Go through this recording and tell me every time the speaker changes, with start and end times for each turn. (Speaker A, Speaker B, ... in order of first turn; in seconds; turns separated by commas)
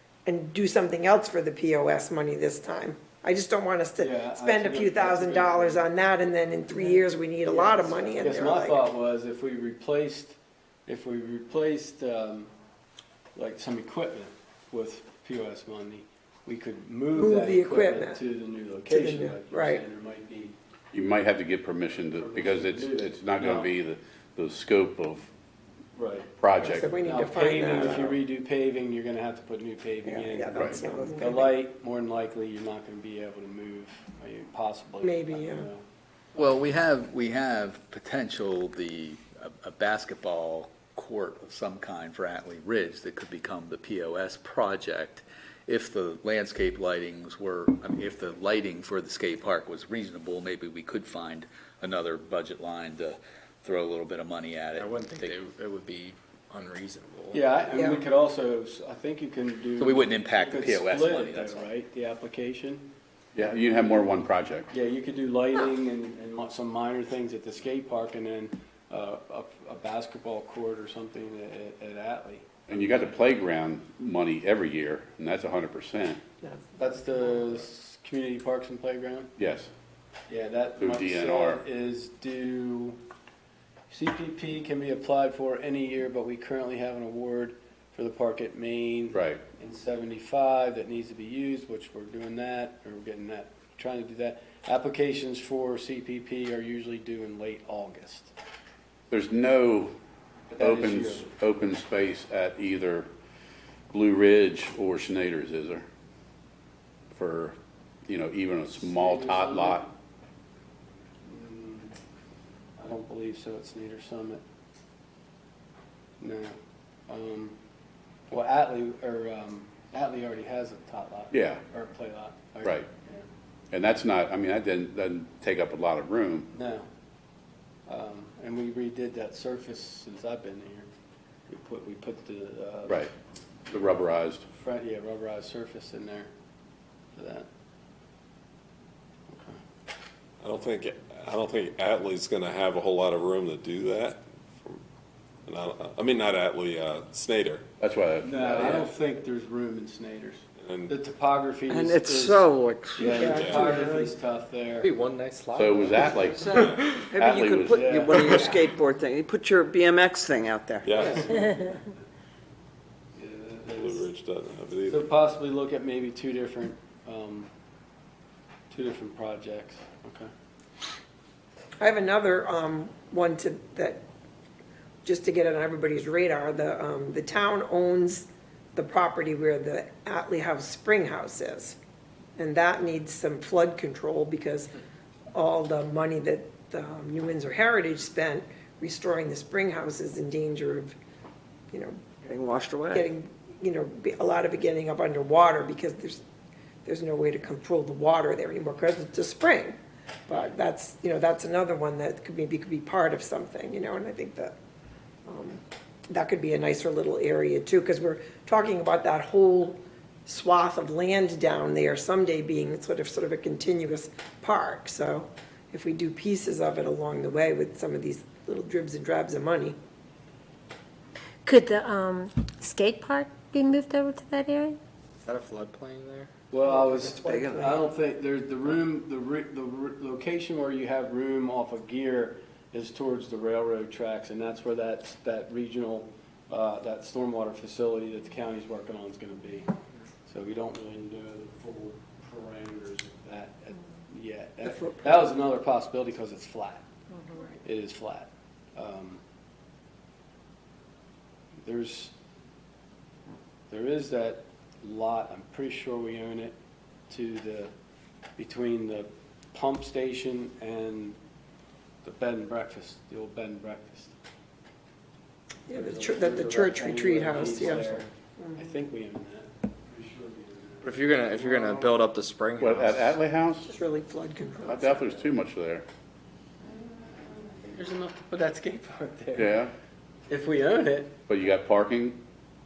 Speaker A: 0.2-8.8, Speaker B: 4.0-5.9, Speaker B: 6.8-12.5, Speaker B: 13.3-20.5, Speaker A: 17.2-18.2, Speaker A: 18.9-19.8, Speaker C: 20.9-25.3, Speaker B: 22.2-23.7, Speaker B: 25.9-26.3, Speaker C: 26.4-27.0, Speaker A: 26.6-28.2, Speaker B: 27.0-35.8, Speaker C: 27.6-28.1, Speaker A: 30.0-31.5, Speaker C: 30.5-30.8, Speaker A: 35.0-35.7, Speaker D: 36.3-55.4, Speaker E: 54.7-57.5, Speaker B: 57.3-62.9, Speaker A: 57.7-58.0, Speaker D: 59.8-61.7, Speaker C: 63.3-64.7, Speaker B: 64.7-72.5, Speaker C: 72.7-76.2, Speaker A: 76.4-77.5, Speaker B: 76.8-79.3, Speaker C: 79.4-79.7, Speaker B: 80.3-83.0, Speaker C: 80.8-81.6, Speaker B: 83.9-98.3, Speaker C: 89.1-89.4, Speaker C: 99.1-100.0, Speaker B: 100.5-101.3, Speaker C: 100.6-103.1, Speaker C: 103.9-105.8, Speaker C: 107.1-107.5, Speaker C: 108.1-109.9, Speaker B: 108.8-109.9, Speaker B: 111.2-111.9, Speaker B: 112.8-114.4, Speaker B: 116.2-116.5, Speaker B: 117.1-117.6, Speaker B: 118.3-123.2, Speaker C: 121.3-121.6, Speaker C: 123.7-126.5, Speaker B: 126.5-126.9, Speaker B: 127.9-130.9, Speaker B: 131.5-133.0, Speaker C: 133.7-134.4, Speaker B: 134.6-136.3, Speaker B: 137.1-137.5, Speaker B: 139.3-139.6, Speaker F: 140.4-144.8, Speaker F: 145.4-147.6, Speaker C: 147.8-148.9, Speaker B: 148.2-154.9, Speaker G: 151.7-154.0, Speaker E: 154.8-157.1, Speaker C: 155.5-156.5, Speaker G: 156.3-161.2, Speaker F: 156.6-156.9, Speaker C: 157.1-158.7, Speaker B: 157.5-158.2, Speaker E: 158.0-158.5, Speaker B: 160.9-161.9, Speaker B: 163.2-164.1, Speaker F: 163.8-165.0, Speaker B: 164.9-167.5, Speaker B: 168.7-170.3, Speaker A: 171.8-174.0, Speaker A: 175.0-181.8, Speaker A: 182.4-184.7, Speaker A: 185.3-190.9, Speaker A: 191.7-192.3, Speaker G: 192.3-193.0, Speaker A: 192.9-196.2, Speaker A: 196.8-199.8, Speaker A: 200.3-204.5, Speaker A: 205.2-219.8, Speaker H: 221.4-224.8, Speaker E: 225.2-226.3, Speaker B: 226.5-239.7, Speaker A: 226.6-227.9, Speaker B: 240.3-246.8, Speaker A: 244.6-245.2, Speaker B: 247.6-249.2, Speaker B: 251.6-252.1, Speaker B: 253.7-256.6, Speaker B: 257.1-257.7, Speaker B: 258.4-261.2, Speaker B: 262.0-264.1, Speaker A: 265.7-268.6, Speaker B: 265.7-272.1, Speaker E: 270.8-273.2, Speaker C: 272.6-273.7, Speaker A: 273.6-275.1, Speaker C: 274.6-275.8, Speaker B: 277.0-279.6, Speaker C: 279.3-279.7, Speaker B: 280.3-281.1, Speaker C: 281.3-282.2